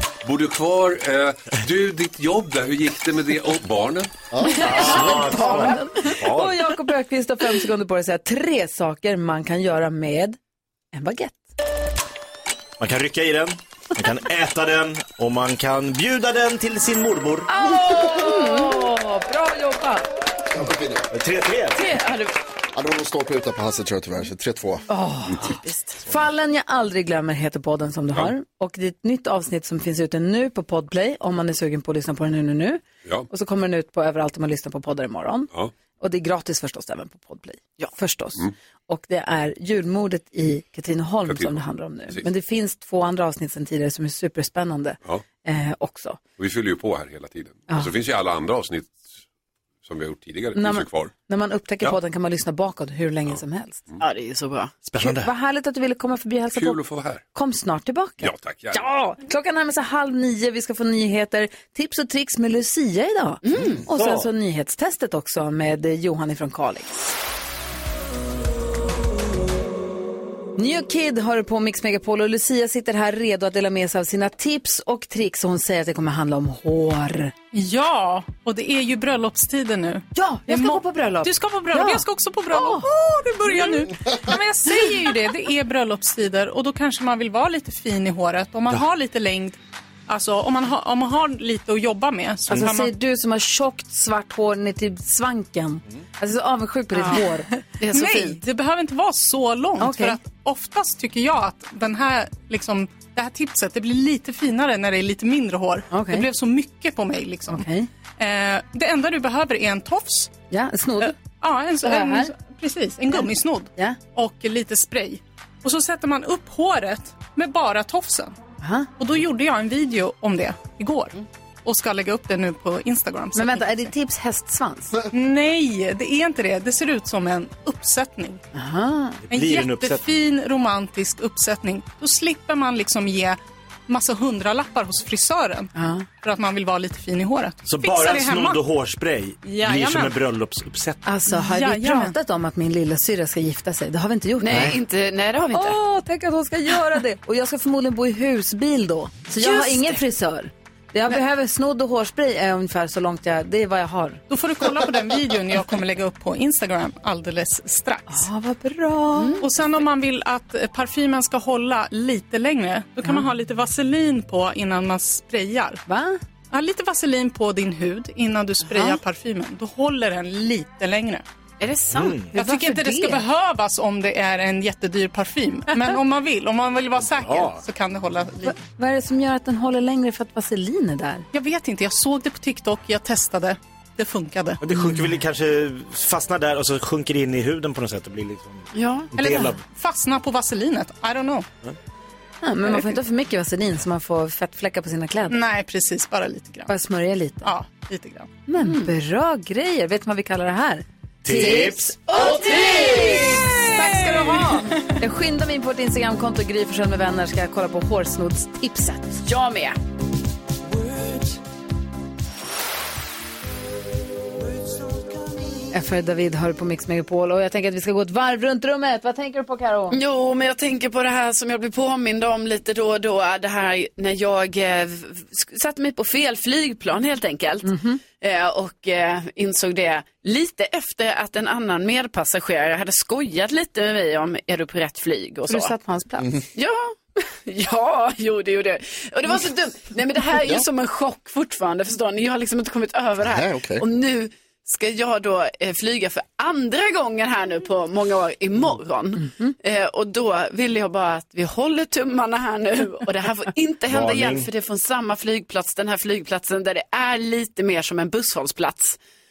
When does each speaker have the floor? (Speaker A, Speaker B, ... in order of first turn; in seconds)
Speaker A: 0.2-4.2, 41.3-42.3, 46.4-49.2, 49.9-51.1, 56.5-57.2, 58.2-58.8
Speaker B: 4.4-4.8, 20.5-21.1, 22.7-24.9, 243.2-243.8
Speaker C: 4.6-6.6, 12.8-17.5, 21.1-21.8, 54.9-55.3, 63.9-64.3, 129.3-130.1, 137.6-141.1, 171.9-172.3, 177.1-177.6, 184.6-189.6, 201.2-202.0, 253.9-254.5
Speaker D: 4.6-10.4, 10.9-11.5, 17.5-20.1, 24.9-46.2, 50.5-53.8, 55.0-56.8, 57.3-67.1, 70.6-77.3, 80.1-82.9, 92.5-97.5, 99.8-100.2, 105.9-106.3, 107.5-107.9, 110.5-111.2, 111.8-112.3, 113.1-114.0, 118.6-118.9, 123.3-125.0, 128.5-129.2, 135.8-136.1, 141.1-144.8, 145.5-154.2, 158.1-159.4, 165.9-166.2, 168.6-169.0, 172.3-173.2, 178.4-181.3, 184.8-185.0, 192.4-195.4, 196.7-197.5, 198.5-209.2, 215.7-220.0, 227.7-228.0, 235.5-236.3, 249.2-249.5
Speaker E: 4.7-5.9, 17.8-18.9, 21.7-22.3, 25.4-26.0, 54.0-54.7, 63.4-63.8, 97.0-97.2, 97.8-98.4, 144.4-145.8, 149.4-149.9, 159.2-159.5, 171.6-172.2, 188.7-189.1, 198.6-198.9, 202.1-203.6, 209.2-209.8, 219.9-235.8, 236.6-259.0
Speaker F: 77.5-92.9, 97.9-110.3, 111.0-118.4, 119.0-123.7, 125.1-128.4, 129.3-135.7, 136.2-138.6, 139.4-140.2, 141.3-142.2, 154.3-158.3, 159.4-165.8, 166.5-171.2, 172.3-178.6, 181.3-184.6, 189.2-191.5, 195.3-196.7, 197.4-198.3, 203.2-204.8